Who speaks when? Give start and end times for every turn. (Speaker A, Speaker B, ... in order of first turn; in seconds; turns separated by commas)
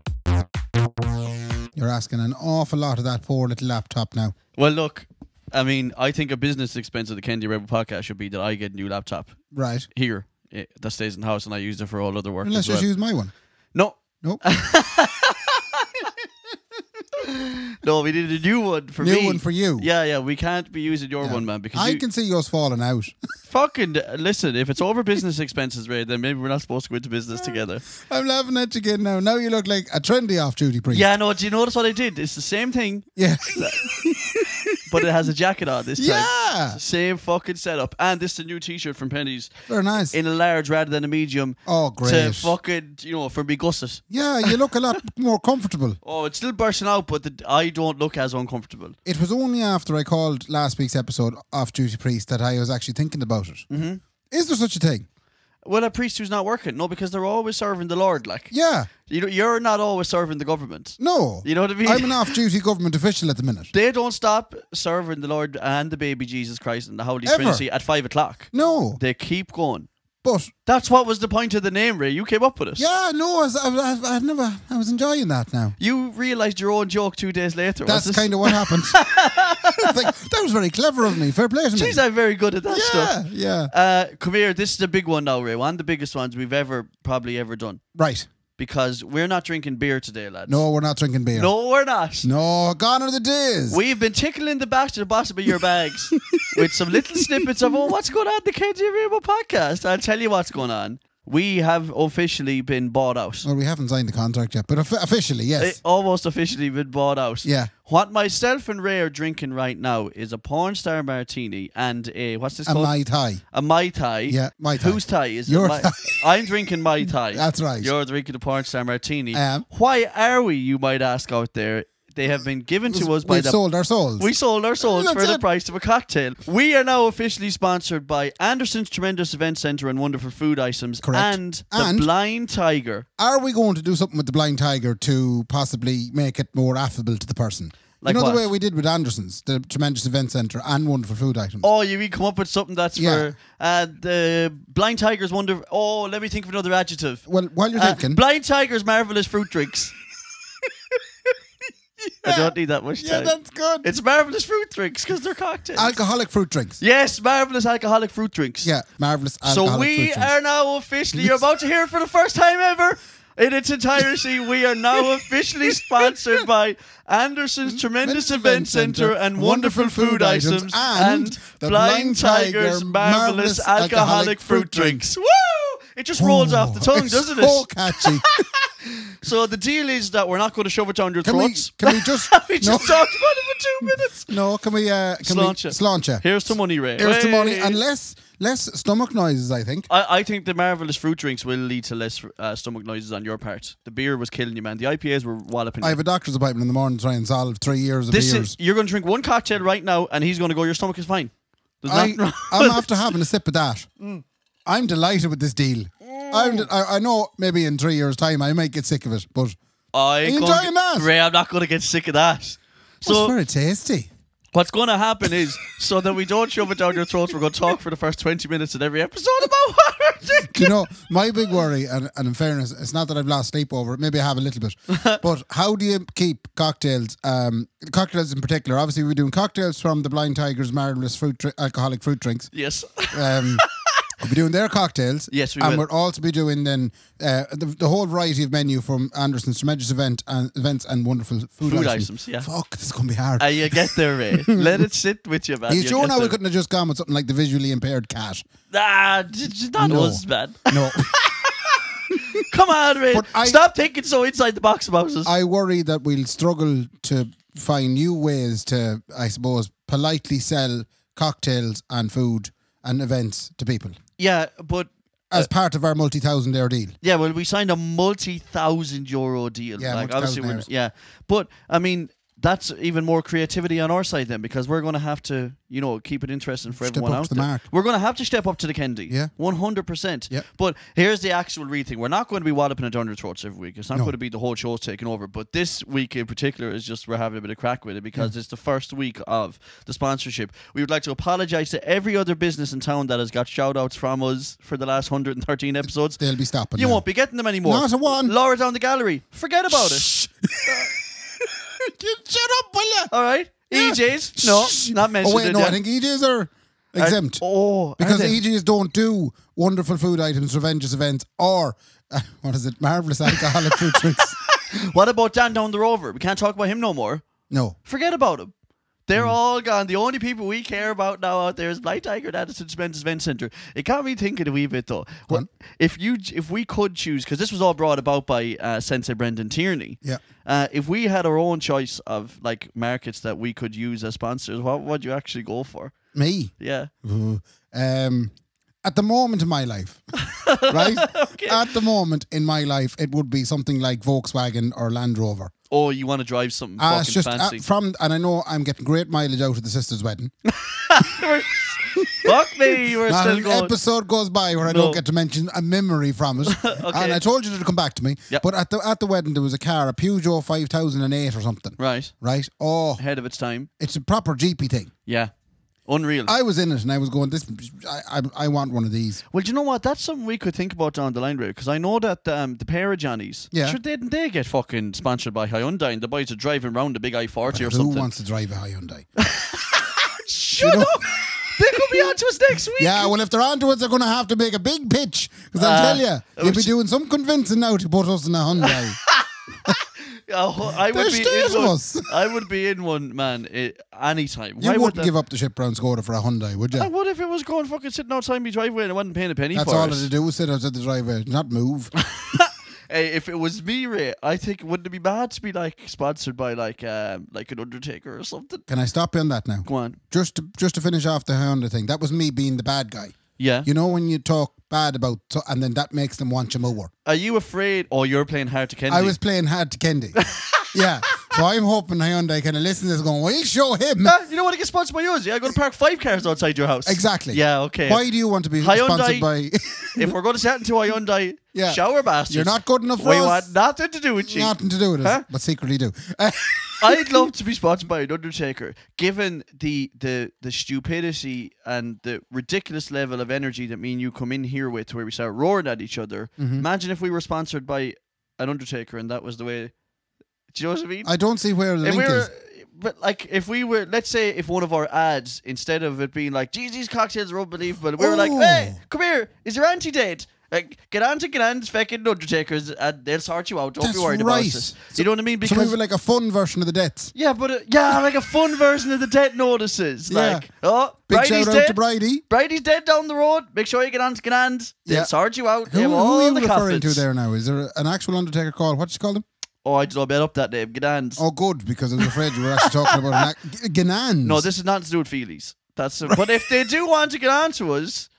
Speaker A: 1.8-4.3, Speaker B: 4.5-9.3, Speaker A: 9.5-9.9, Speaker B: 9.9-12.8, Speaker A: 12.4-13.3, Speaker B: 13.7-16.1, Speaker B: 17.2-22.0, Speaker A: 19.0-19.9, Speaker A: 21.2-23.1, Speaker B: 23.5-27.8, Speaker A: 27.6-31.1, Speaker B: 30.9-33.8, Speaker A: 33.1-34.9, Speaker B: 34.9-39.5, Speaker A: 36.0-36.8, Speaker A: 39.7-40.1, Speaker B: 40.1-44.6, Speaker A: 41.6-42.5, Speaker A: 44.1-46.0, Speaker B: 46.0-48.9, Speaker A: 49.0-53.7, Speaker B: 53.7-54.0, Speaker A: 54.3-55.0, Speaker B: 55.6-58.5, Speaker A: 58.5-58.9, Speaker B: 59.0-62.4, Speaker A: 61.0-63.7, Speaker B: 63.7-69.9, Speaker A: 67.2-67.6, Speaker A: 68.5-69.0, Speaker A: 70.2-70.5, Speaker B: 70.7-72.8, Speaker A: 72.8-75.7, Speaker B: 75.8-80.1, Speaker A: 77.8-79.0, Speaker A: 79.8-82.0, Speaker B: 81.7-83.2, Speaker A: 82.7-83.7, Speaker B: 83.7-87.8, Speaker A: 87.9-88.3, Speaker B: 88.6-90.6, Speaker A: 90.5-91.5, Speaker B: 91.3-92.3, Speaker A: 92.2-93.8, Speaker B: 93.7-103.5, Speaker A: 96.2-97.5, Speaker A: 103.4-105.8, Speaker B: 105.6-112.9, Speaker A: 107.4-107.7, Speaker A: 112.7-113.4, Speaker B: 113.5-123.6, Speaker A: 114.3-116.1, Speaker A: 117.3-117.9, Speaker A: 119.3-119.6, Speaker A: 122.9-125.4, Speaker B: 124.2-133.1, Speaker A: 131.0-132.1, Speaker A: 133.2-141.7, Speaker B: 138.0-138.5, Speaker B: 141.6-147.2, Speaker A: 142.9-143.3, Speaker A: 147.3-148.2, Speaker B: 147.7-149.9, Speaker A: 152.0-153.9, Speaker B: 152.2-156.0, Speaker A: 155.8-156.8, Speaker B: 156.8-158.7, Speaker A: 158.6-160.3, Speaker B: 159.4-184.3, Speaker A: 161.1-161.4, Speaker A: 165.7-166.1, Speaker A: 168.0-175.0, Speaker A: 176.2-178.3, Speaker A: 181.2-183.1, Speaker A: 183.8-186.2, Speaker B: 185.2-187.8, Speaker A: 187.0-189.9, Speaker B: 189.9-196.0, Speaker A: 195.8-198.5, Speaker B: 198.1-202.9, Speaker A: 201.9-203.9, Speaker A: 204.6-209.6, Speaker B: 206.1-206.7, Speaker B: 209.9-213.3, Speaker A: 210.2-211.1, Speaker A: 213.0-214.1, Speaker B: 214.5-221.1, Speaker A: 220.4-232.5, Speaker B: 224.9-225.2, Speaker B: 232.5-234.1, Speaker A: 233.1-233.6, Speaker A: 234.2-244.8, Speaker B: 235.3-235.8, Speaker B: 241.6-242.5, Speaker B: 243.4-246.3, Speaker A: 245.7-248.5, Speaker B: 248.7-255.3, Speaker A: 249.8-251.1, Speaker A: 252.1-252.4, Speaker A: 253.1-253.6, Speaker A: 255.2-263.9, Speaker B: 264.2-265.5, Speaker A: 265.3-266.9, Speaker B: 267.0-296.2, Speaker A: 269.8-270.7, Speaker A: 276.8-277.6, Speaker A: 296.2-297.0, Speaker B: 296.8-300.1, Speaker A: 297.6-298.3, Speaker A: 299.7-303.1, Speaker B: 303.1-305.8, Speaker A: 303.7-307.4, Speaker B: 307.0-308.4, Speaker A: 308.0-314.4, Speaker B: 313.3-317.2, Speaker A: 317.5-317.8, Speaker B: 317.9-318.5, Speaker B: 319.1-335.9, Speaker A: 336.1-336.5, Speaker B: 336.6-336.9, Speaker A: 337.0-338.3, Speaker A: 338.8-340.0, Speaker B: 340.2-341.7, Speaker A: 340.6-345.5, Speaker B: 345.7-347.6, Speaker A: 346.8-350.3, Speaker B: 350.4-353.7, Speaker A: 352.0-363.0, Speaker B: 354.6-355.0, Speaker B: 356.4-357.2, Speaker B: 361.8-362.1, Speaker B: 363.0-363.7, Speaker A: 363.8-364.9, Speaker B: 365.1-365.3, Speaker B: 365.9-366.3, Speaker A: 366.3-369.2, Speaker B: 369.3-378.1, Speaker A: 373.5-373.8, Speaker A: 377.5-379.1, Speaker B: 379.2-383.1, Speaker A: 380.6-381.2, Speaker A: 381.7-382.1, Speaker A: 382.8-389.0, Speaker B: 385.6-386.7, Speaker B: 388.6-395.1, Speaker A: 390.8-392.1, Speaker A: 394.6-396.9, Speaker B: 396.7-400.1, Speaker A: 399.5-401.9, Speaker B: 402.1-408.6, Speaker A: 408.7-416.9, Speaker B: 409.6-410.0, Speaker B: 413.4-413.7, Speaker B: 417.0-419.1, Speaker A: 418.9-420.2, Speaker B: 420.1-421.4, Speaker A: 420.7-424.1, Speaker B: 424.0-428.1, Speaker A: 426.9-430.1, Speaker B: 428.6-429.3, Speaker B: 429.9-435.2, Speaker A: 431.5-433.5, Speaker A: 434.2-437.3, Speaker B: 436.8-449.7, Speaker A: 446.4-446.6, Speaker B: 450.5-451.1, Speaker A: 451.0-452.3, Speaker B: 451.8-465.7, Speaker A: 458.0-458.8, Speaker A: 463.8-467.1, Speaker B: 467.1-471.8, Speaker A: 470.1-470.5, Speaker A: 471.1-472.2, Speaker B: 472.3-477.0, Speaker A: 474.9-475.1, Speaker A: 475.7-479.2, Speaker B: 479.6-481.2, Speaker A: 481.2-484.4, Speaker B: 482.0-483.2, Speaker B: 484.2-488.1